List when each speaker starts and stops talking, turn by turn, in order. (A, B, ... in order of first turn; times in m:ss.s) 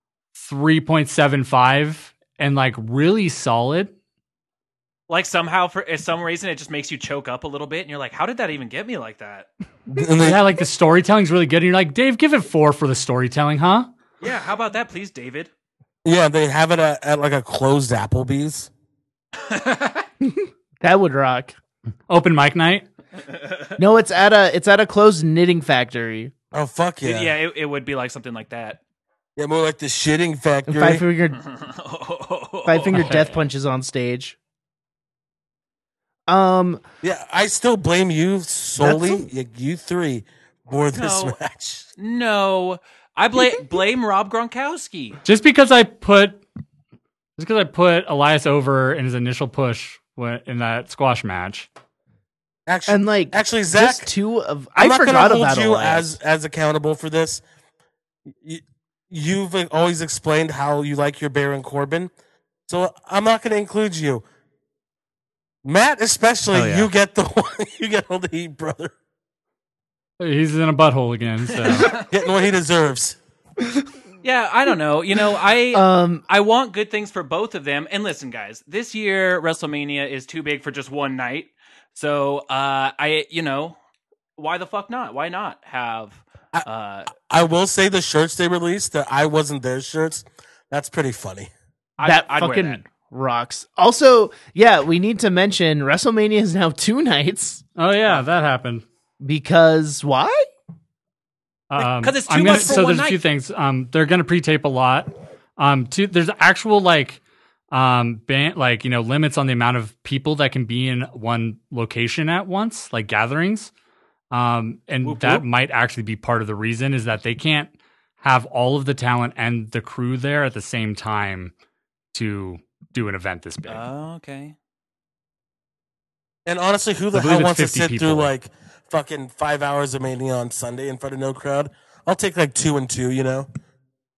0:00.3-0:03.9 A
0:05.1-0:09.5 B
0:09.9-0:10.4 C
0:10.2-0:13.9 A
0:14.2-0:15.5 B
0:16.0-0:18.7 C
0:19.4-0:20.1 B
0:20.2-0:21.5 D
0:22.1-0:22.8 A
0:23.2-0:23.8 B
0:23.8-0:26.3 D
0:26.5-0:27.3 C
0:27.0-0:28.8 B
0:29.4-0:31.0 C
0:30.7-0:31.4 D
0:31.3-0:33.3 B
0:32.6-0:34.4 D
0:32.9-0:33.2 A
0:36.3-0:36.8 D
0:37.0-0:41.9 C
0:38.8-0:39.2 D
0:40.9-0:41.4 B
0:42.0-0:45.2 B
0:45.2-0:46.4 A
0:47.4-0:51.7 A
0:52.7-0:54.1 C
0:52.9-0:56.2 D
0:54.8-0:57.4 C
0:58.3-1:02.1 C
1:02.7-1:04.2 C
1:05.6-1:08.9 C
1:06.5-1:06.9 A
1:10.2-1:12.0 A
1:11.5-1:12.1 B
1:11.9-1:13.2 C
1:14.2-1:23.8 B
1:15.7-1:16.2 D
1:24.4-1:27.1 B
1:27.2-1:31.5 C
1:32.0-1:32.8 B
1:32.0-1:37.6 D
1:37.8-1:38.8 A
1:39.2-1:40.5 D
1:41.7-1:47.2 A
1:41.8-1:43.2 B
1:47.7-1:53.7 A
1:54.3-2:01.5 A
1:55.0-1:55.4 B
2:02.1-2:03.8 A
2:03.7-2:04.5 B
2:06.4-2:13.5 C
2:07.1-2:08.3 A